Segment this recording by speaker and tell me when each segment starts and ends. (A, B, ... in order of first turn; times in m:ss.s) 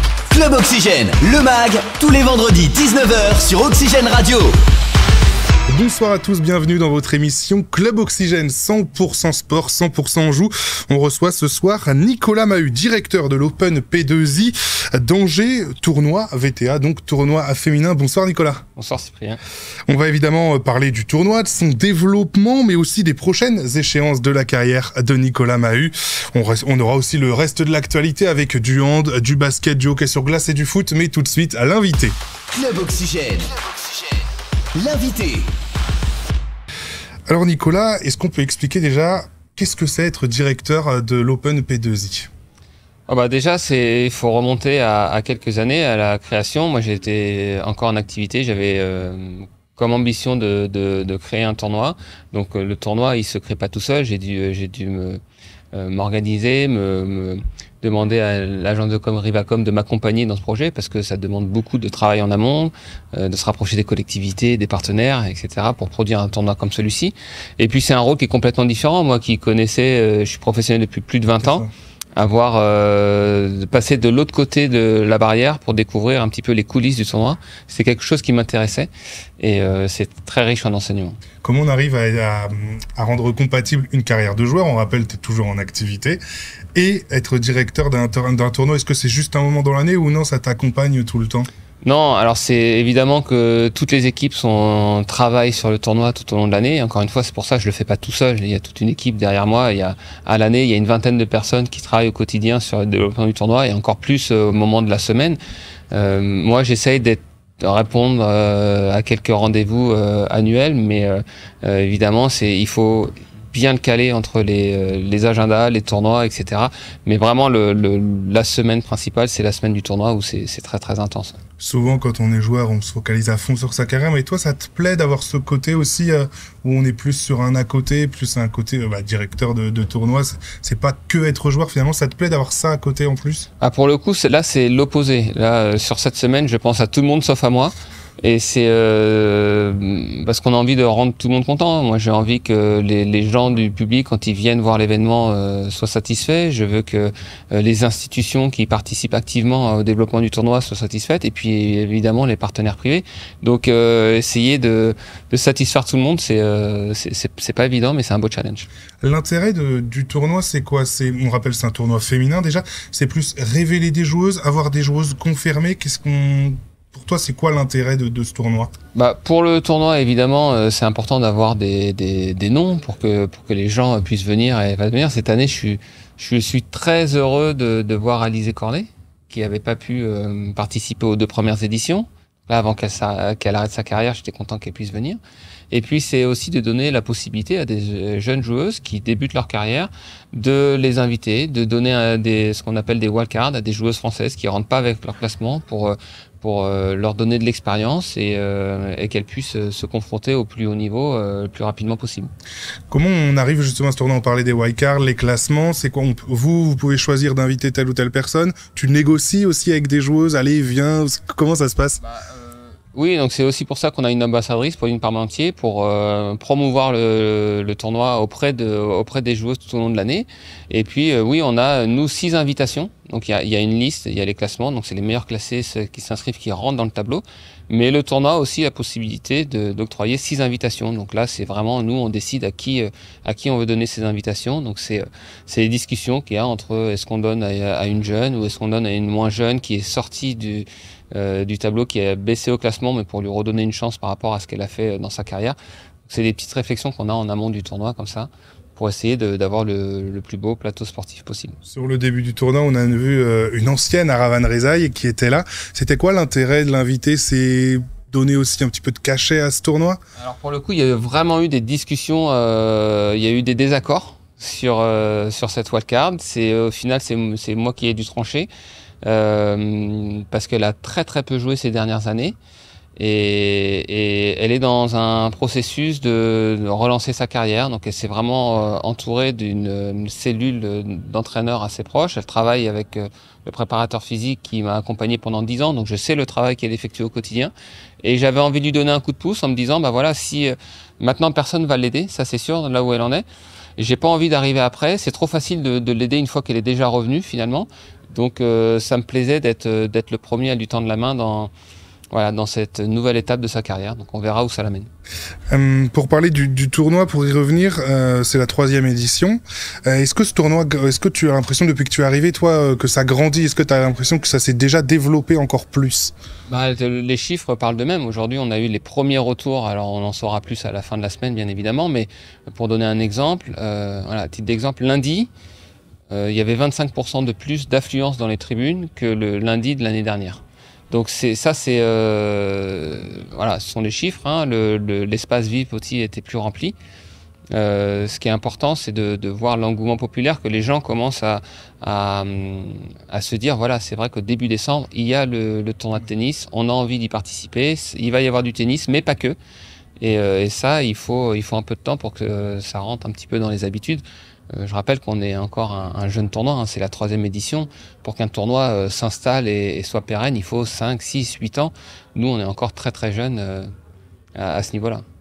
0:00.3-0:04.6 A
0:05.7-0:18.6 B
0:18.8-0:19.4 C
0:19.9-0:32.1 B
0:32.5-0:34.2 A
0:34.7-0:35.5 A
0:37.3-0:42.3 B
0:43.1-0:55.2 C
0:55.7-1:21.2 C
1:11.4-1:11.7 B
1:21.4-1:26.2 B
1:26.7-1:31.5 B
1:31.8-1:45.4 C
1:45.9-2:01.4 C
2:01.6-2:13.5 B
2:13.6-2:38.7 C
2:39.0-2:48.7 B
2:48.9-3:05.2 C
3:05.7-3:22.3 C
3:22.9-3:32.0 B
3:32.0-4:11.6 C
4:11.6-4:20.0 B
4:20.2-4:28.5 C
4:29.0-4:32.4 C
4:33.0-4:53.2 C
4:53.8-5:01.5 C
5:02.1-5:04.9 C
5:05.5-5:16.1 B
5:16.5-5:25.3 C
5:26.1-5:36.7 C
5:37.5-5:49.4 C
5:50.0-6:03.7 C
6:04.3-6:05.0 C